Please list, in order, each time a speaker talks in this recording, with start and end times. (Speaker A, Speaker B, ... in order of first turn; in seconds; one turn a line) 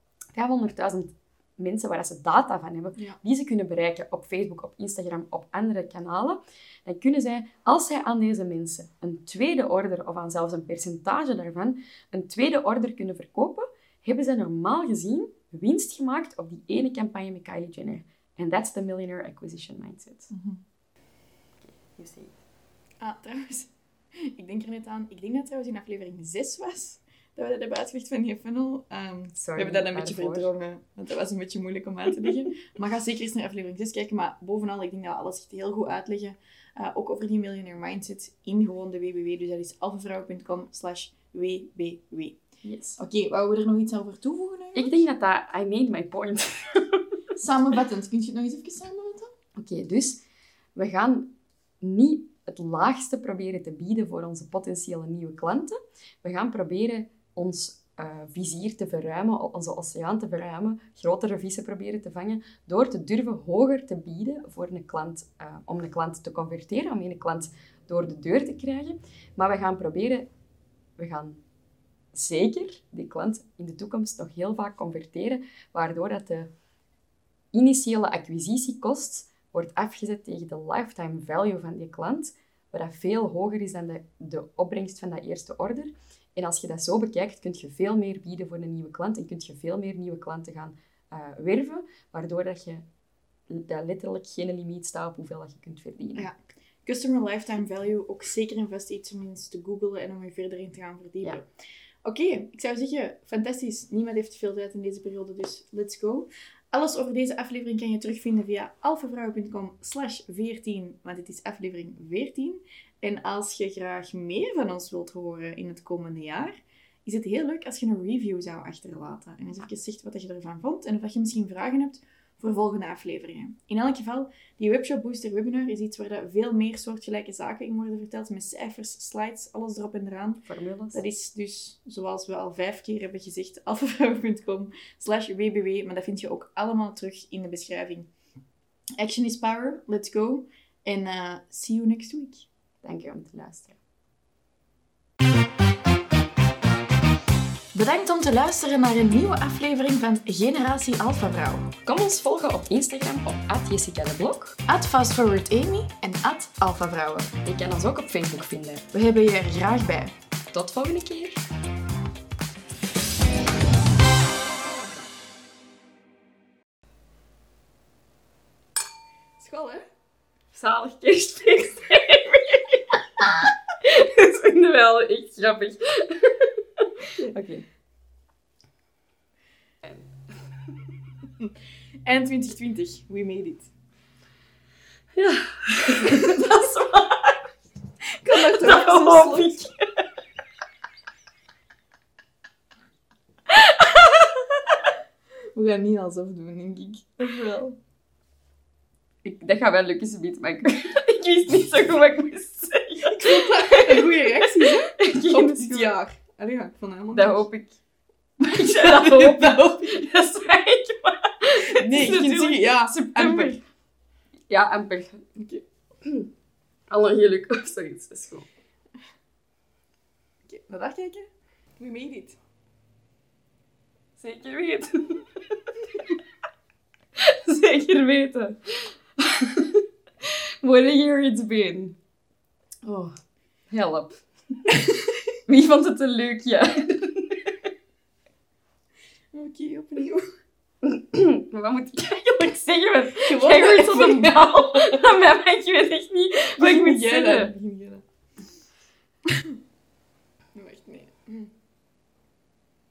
Speaker A: 0.3-20.3
Speaker B: 20.3-20.6
Speaker A: 21.6-22.4
Speaker B: 23.0-23.7
Speaker B: 24.3-42.4
Speaker A: 29.4-30.5
Speaker A: 42.6-43.0
Speaker B: 43.0-45.0
Speaker A: 44.7-47.0
Speaker B: 47.4-49.3
Speaker A: 49.6-50.2
Speaker A: 50.8-70.3
Speaker A: 71.0-71.4
Speaker A: 72.1-76.5
Speaker A: 77.5-92.8
Speaker A: 93.5-96.3
Speaker B: 96.2-101.4
Speaker B: 102.0-138.1
Speaker A: 130.4-131.0
Speaker B: 139.0-142.4
Speaker A: 142.8-143.8
Speaker B: 147.7-151.7
Speaker A: 151.8-154.6
Speaker B: 154.7-157.3
Speaker A: 157.4-158.9
Speaker B: 158.9-160.1
Speaker A: 160.5-161.4
Speaker B: 169.4-169.8
Speaker A: 170.5-177.6
Speaker B: 182.0-183.7
Speaker A: 185.2-187.4
Speaker B: 188.2-189.6
Speaker A: 188.3-190.1
Speaker A: 193.5-194.7
Speaker B: 195.5-197.8
Speaker A: 199.2-205.9
Speaker B: 203.1-207.4
Speaker A: 207.1-207.8
Speaker A: 208.4-213.6
Speaker B: 208.4-209.9
Speaker B: 211.7-213.6
Speaker A: 214.5-215.2
Speaker B: 215.4-215.6
Speaker A: 216.0-216.3
Speaker A: 216.9-218.4
Speaker B: 220.5-221.2
Speaker B: 221.8-222.4
Speaker A: 224.2-226.2
Speaker A: 227.2-232.0
Speaker A: 232.8-233.2
Speaker A: 233.7-234.2
Speaker A: 235.5-237.5
Speaker B: 239.3-240.3
Speaker A: 240.8-247.5
Speaker B: 243.2-245.0
Speaker B: 246.6-248.0
Speaker B: 249.3-249.5
Speaker B: 250.5-251.5